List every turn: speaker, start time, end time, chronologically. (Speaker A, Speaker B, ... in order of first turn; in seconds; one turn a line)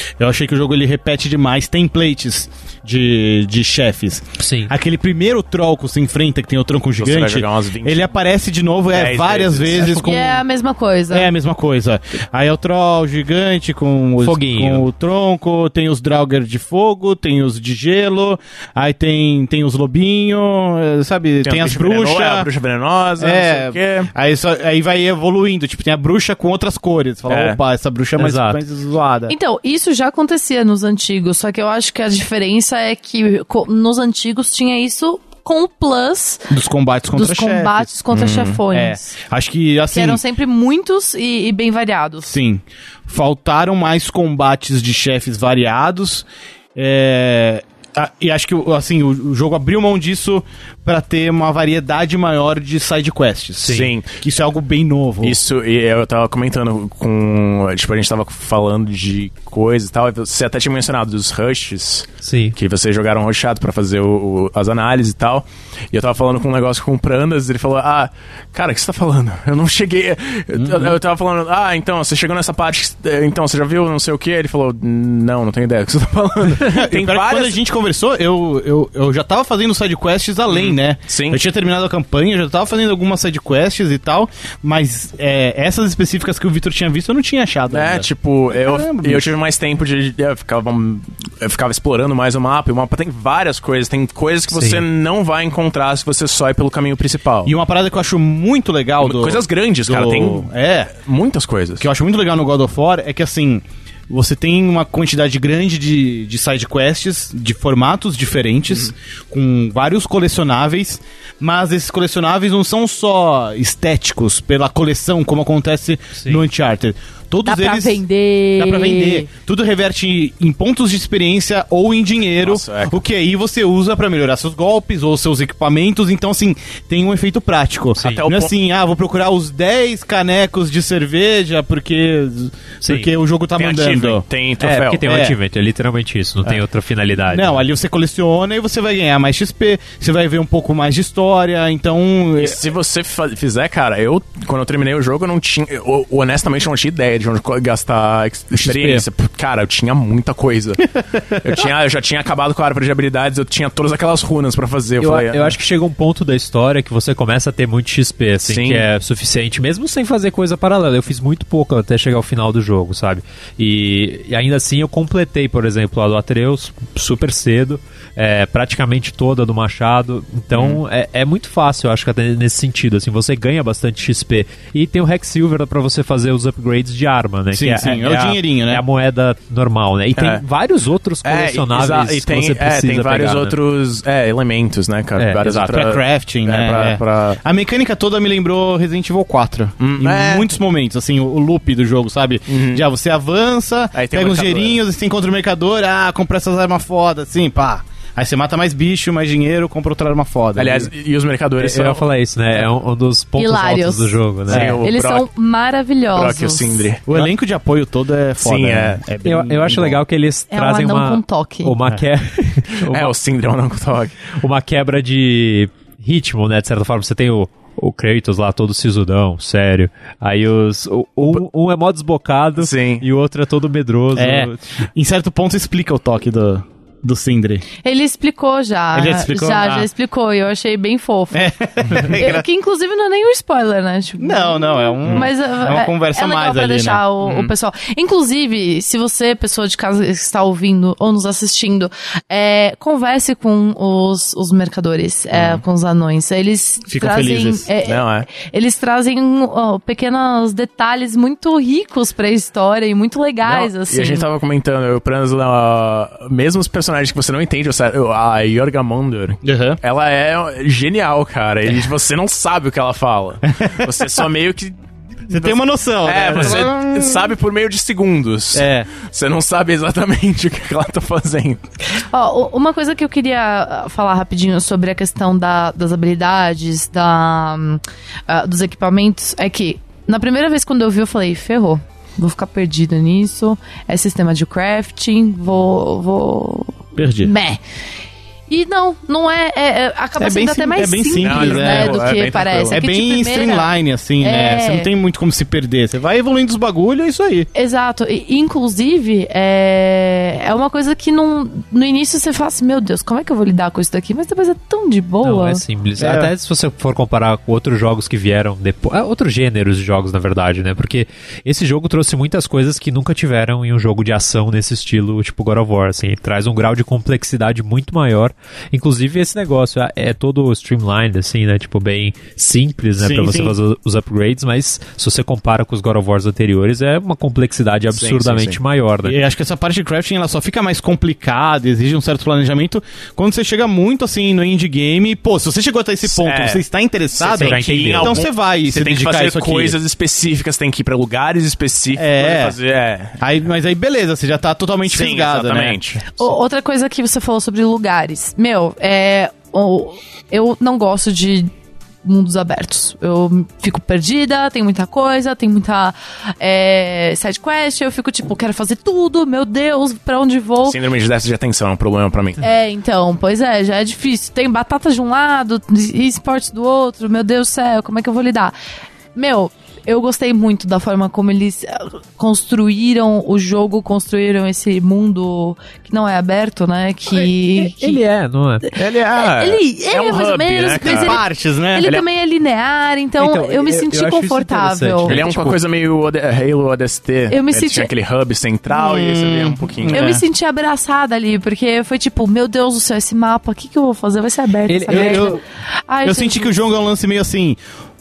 Speaker A: 0.2-10.4
Speaker B: 4.4-4.7
Speaker C: 7.0-8.1
Speaker C: 8.9-9.9
Speaker D: 9.8-11.3
Speaker B: 9.8-10.1
Speaker A: 11.1-22.5
Speaker B: 14.2-14.8
Speaker C: 21.4-24.1
Speaker A: 23.2-29.3
Speaker C: 27.3-27.6
Speaker B: 28.2-28.6
Speaker D: 29.3-36.5
Speaker A: 36.5-37.9
Speaker D: 37.1-39.1
Speaker C: 38.1-38.6
Speaker A: 38.7-40.2
Speaker D: 39.9-42.3
Speaker A: 42.3-55.4
Speaker B: 53.6-53.9
Speaker C: 53.7-54.1
Speaker C: 55.2-77.6
Speaker B: 62.2-62.6
Speaker A: 70.5-71.0
Speaker A: 76.6-89.3
Speaker C: 80.5-81.4
Speaker C: 87.7-97.5
Speaker B: 94.5-94.8
Speaker A: 97.5-100.9
Speaker C: 99.0-101.9
Speaker A: 101.8-118.0
Speaker D: 117.5-119.3
Speaker A: 118.6-134.2
Speaker C: 122.4-123.0
Speaker B: 128.0-128.2
Speaker C: 128.0-128.5
Speaker B: 132.8-133.1
Speaker C: 133.6-135.1
Speaker B: 134.6-137.6
Speaker A: 135.0-135.4
Speaker A: 137.3-142.6
Speaker C: 142.4-155.6
Speaker A: 148.6-149.1
Speaker B: 155.0-183.6
Speaker C: 158.4-158.8
Speaker C: 170.5-170.8
Speaker A: 177.5-178.8
Speaker C: 180.2-180.4
Speaker C: 181.2-187.4
Speaker B: 185.2-185.8
Speaker A: 185.7-200.9
Speaker C: 189.8-190.5
Speaker C: 192.5-192.8
Speaker C: 193.9-194.8
Speaker C: 200.6-202.1
Speaker B: 201.6-204.8
Speaker D: 203.4-204.2
Speaker C: 204.5-205.3
Speaker A: 204.5-204.8
Speaker D: 204.8-206.9
Speaker C: 206.2-207.3
Speaker A: 207.1-210.0
Speaker C: 208.4-209.0
Speaker B: 209.2-213.1
Speaker D: 210.5-211.8
Speaker C: 212.8-214.3
Speaker B: 214.3-224.6
Speaker C: 222.6-223.1
Speaker A: 224.1-227.7
Speaker D: 227.8-254.3
Speaker A: 228.9-229.9
Speaker A: 231.3-232.4
Speaker A: 234.2-237.0
Speaker C: 237.2-237.5
Speaker A: 246.9-247.7
Speaker C: 247.8-248.3
Speaker C: 253.4-271.6
Speaker A: 259.4-259.8
Speaker A: 265.3-267.3
Speaker A: 268.5-268.9
Speaker D: 272.0-287.6
Speaker A: 287.0-287.3
Speaker D: 288.5-294.9
Speaker A: 290.2-292.1
Speaker C: 291.2-292.8
Speaker A: 292.7-297.5
Speaker D: 297.5-305.6
Speaker B: 305.2-329.2
Speaker A: 306.0-306.3
Speaker A: 323.0-323.6
Speaker C: 327.9-328.6
Speaker A: 329.1-339.8
Speaker C: 336.0-336.6
Speaker C: 337.1-343.2
Speaker B: 337.4-338.2
Speaker A: 342.0-342.6
Speaker A: 343.2-345.8
Speaker C: 344.9-346.2
Speaker D: 346.2-351.5
Speaker D: 352.0-360.8
Speaker C: 360.6-362.4
Speaker D: 362.4-368.5
Speaker D: 369.1-378.0
Speaker B: 377.6-378.7
Speaker D: 378.6-385.2
Speaker C: 378.8-381.2
Speaker A: 380.8-381.9
Speaker B: 383.2-385.6
Speaker C: 385.1-390.2
Speaker D: 387.3-387.9
Speaker A: 388.7-390.2
Speaker D: 389.9-396.5
Speaker B: 394.7-395.4
Speaker A: 394.9-395.4
Speaker A: 396.0-397.6